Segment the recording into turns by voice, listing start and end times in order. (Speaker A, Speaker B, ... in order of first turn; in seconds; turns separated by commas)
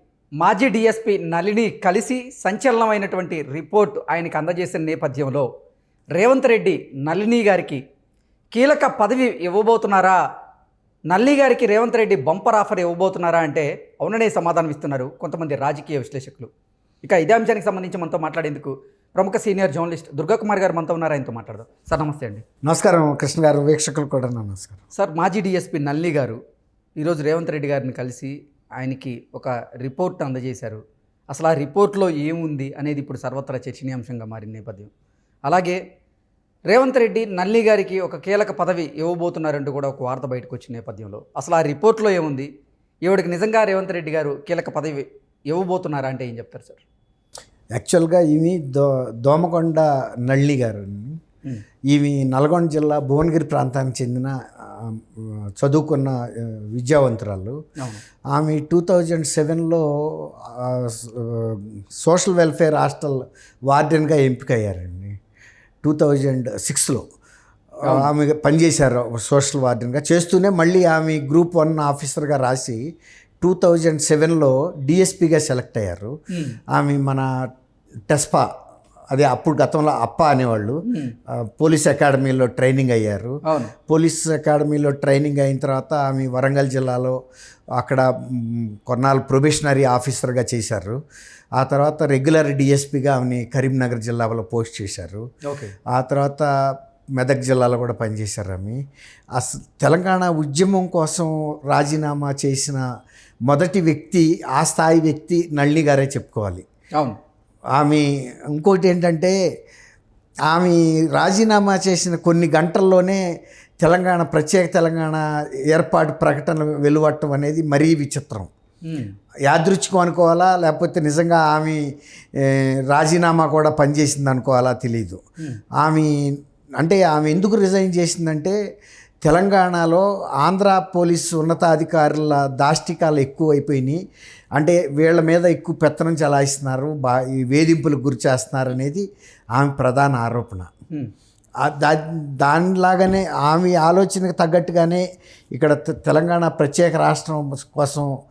Speaker A: 0.4-5.5, Speaker A: 6.1-7.8, Speaker A: 8.5-10.2, Speaker A: 11.1-16.5, Speaker A: 17.0-22.4, Speaker B: 22.6-24.8, Speaker A: 24.9-26.4, Speaker A: 27.0-34.9, Speaker A: 35.5-35.8, Speaker A: 36.7-42.5, Speaker A: 43.0-46.8, Speaker B: 47.7-51.2, Speaker B: 51.9-57.6, Speaker B: 58.3-65.1, Speaker B: 65.8-67.0, Speaker A: 67.8-68.1, Speaker B: 67.8-72.8, Speaker B: 73.4-76.1, Speaker A: 76.3-76.6, Speaker B: 76.7-77.3, Speaker B: 78.1-78.5, Speaker B: 79.1-87.2, Speaker A: 80.9-81.1, Speaker A: 83.5-83.7, Speaker B: 87.8-91.0, Speaker B: 91.6-95.2, Speaker A: 95.4-95.7, Speaker B: 95.9-96.5, Speaker B: 97.2-98.8, Speaker B: 99.3-102.8, Speaker B: 103.5-106.6, Speaker B: 107.8-109.3, Speaker B: 110.5-113.2, Speaker B: 113.8-118.5, Speaker A: 118.8-119.1, Speaker B: 119.5-121.8, Speaker B: 122.3-125.2, Speaker B: 125.8-128.6, Speaker B: 129.2-134.0, Speaker B: 134.6-140.7, Speaker B: 141.6-148.1